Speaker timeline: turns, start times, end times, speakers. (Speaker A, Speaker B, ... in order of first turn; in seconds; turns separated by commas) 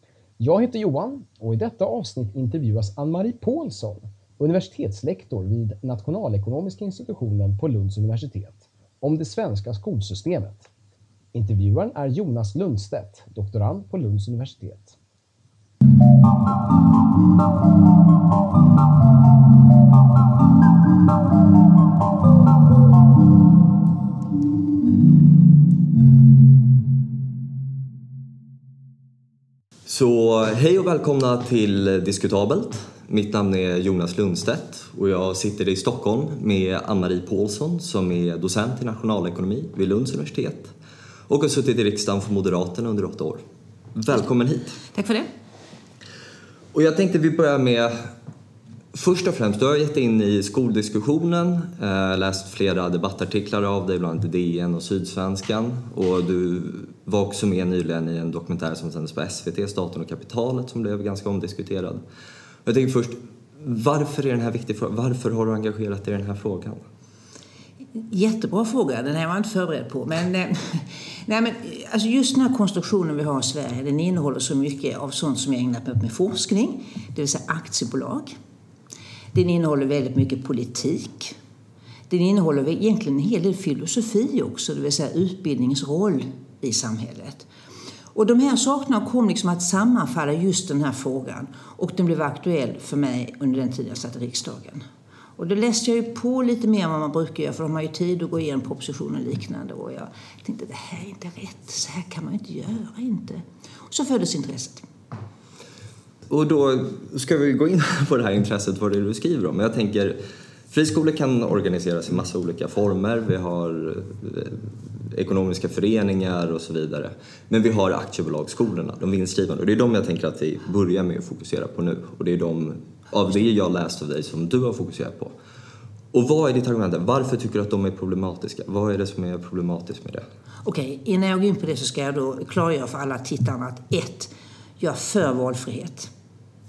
Speaker A: 0.4-10.7, Speaker A: 11.3-14.9, Speaker B: 29.9-40.7, Speaker B: 41.3-43.4, Speaker B: 44.0-44.8, Speaker C: 44.9-45.3, Speaker B: 46.7-48.1, Speaker B: 48.9-62.0, Speaker B: 62.6-66.8, Speaker C: 68.0-78.3, Speaker C: 79.3-81.4, Speaker C: 82.1-87.5, Speaker C: 88.1-94.8, Speaker C: 95.4-104.9, Speaker B: 106.3-110.2, Speaker B: 110.7-125.3, Speaker B: 126.1-130.2, Speaker C: 130.6-136.1